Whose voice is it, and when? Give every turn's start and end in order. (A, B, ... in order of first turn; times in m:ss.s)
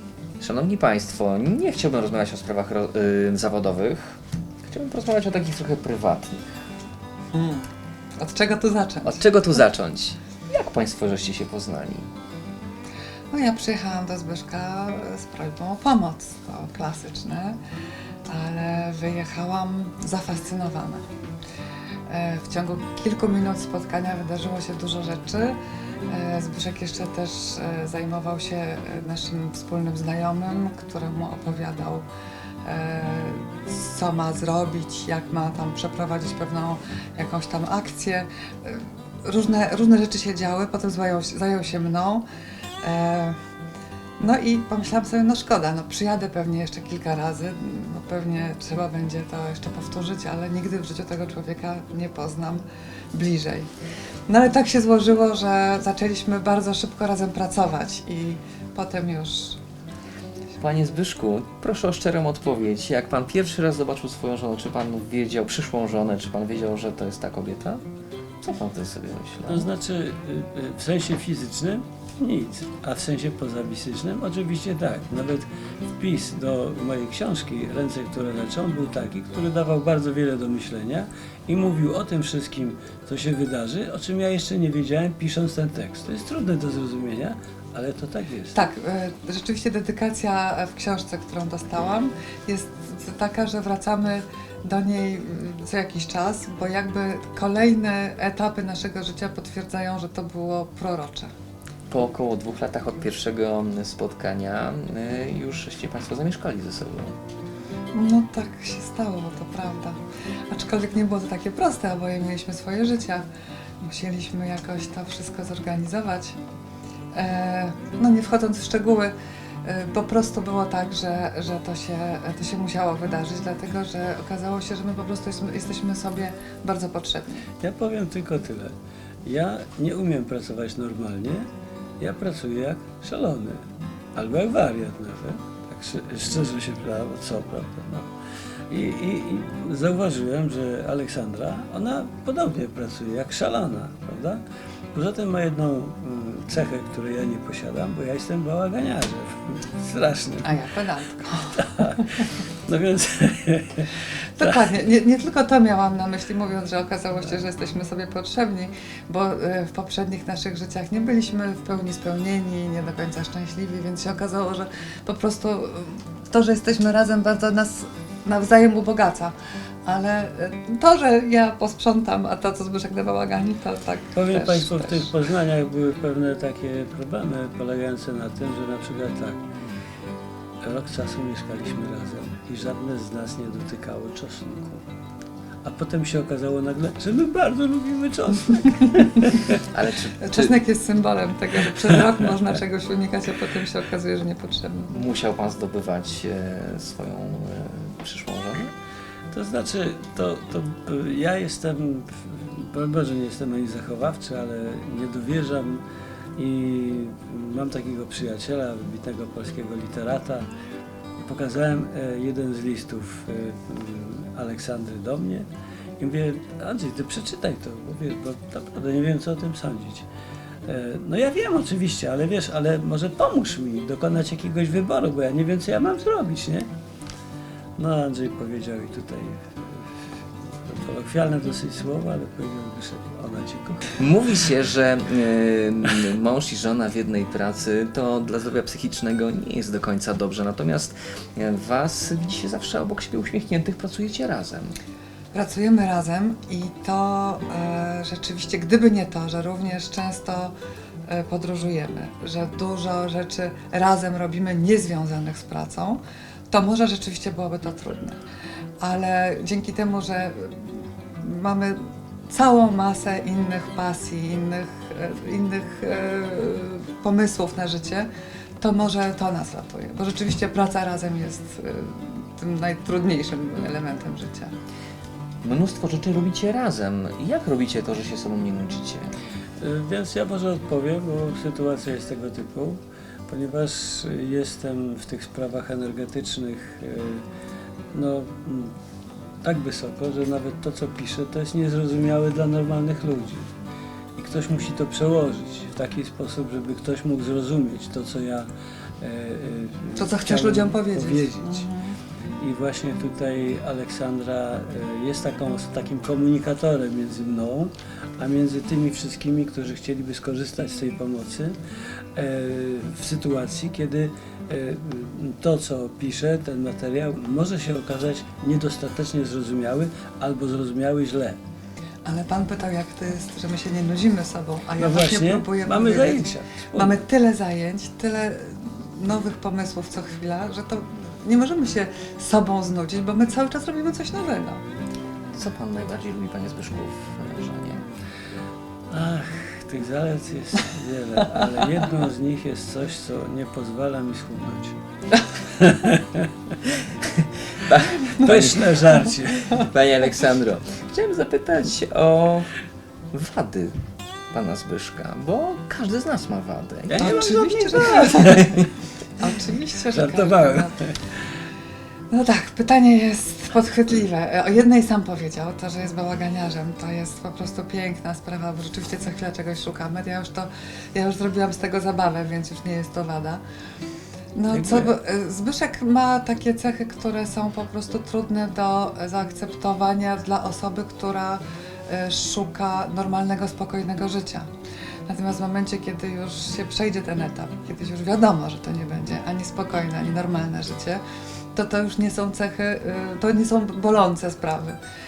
0:00.4-0:04.1 A
0:04.6-0:06.4 A
0:07.3-0:09.3 B
0:09.0-0:12.1 A
0:13.3-0:17.6 B
0:18.3-0:21.0 B
0:22.1-0:32.0 B
0:32.6-0:42.2 B
0:42.8-0:43.4 B
0:44.2-0:53.7 B
0:54.3-0:59.6 B
1:00.6-1:07.8 A
1:08.4-1:09.7 A
1:09.5-1:28.6 C
1:28.5-1:41.3 B
1:41.9-1:47.1 A
1:47.9-1:50.0 B
1:50.5-1:53.2 B
1:53.8-1:56.4 B
1:57.1-2:07.4 B
2:07.6-2:08.7 C
2:09.2-2:11.5 C
2:12.0-2:13.6 C
2:14.1-2:18.1 C
2:18.7-2:24.4 C
2:24.9-2:30.5 C
2:30.4-2:32.0 B
2:31.6-2:33.9 C
2:34.4-2:49.3 B
2:49.8-2:55.1 B
2:54.1-2:59.4 C
3:00.6-3:04.8 C
3:05.6-3:09.6 C
3:09.7-3:10.5 A
3:10.2-3:14.9 B
3:14.9-3:18.7 A
3:19.3-3:25.8 C
3:26.4-3:30.5 C
3:31.2-3:35.5 C
3:36.0-3:40.1 C
3:40.6-3:46.7 C
3:47.8-3:49.9 C
3:50.6-3:54.0 C
3:54.0-4:04.7 A
4:05.3-4:10.5 B
4:11.1-4:18.2 B
4:18.8-4:28.1 B
4:28.6-4:34.5 B
4:35.4-4:39.1 A
4:39.6-4:47.2 C
4:47.9-4:48.7 C
4:49.4-4:53.5 C
4:54.1-4:58.5 C
4:59.0-5:01.6 C
4:59.9-5:02.0 B
5:02.4-5:11.5 C
5:12.2-5:21.4 C
5:22.0-5:34.6 B
5:24.8-5:27.0 C
5:35.3-5:37.8 A
5:38.9-5:44.8 C
5:45.5-5:46.6 C
5:47.0-5:48.7 A
5:48.1-5:49.7 C
5:49.5-5:52.5 A
5:53.1-5:53.7 A
5:54.3-5:57.2 A
5:56.9-5:58.7 C
5:57.0-5:58.6 B
5:58.2-5:58.6 A
5:59.2-6:00.8 B
5:59.9-6:01.0 C
6:02.1-6:13.4 B
6:14.4-6:24.5 B
6:14.5-6:15.0 C
6:25.1-6:31.0 B
6:31.5-6:34.8 B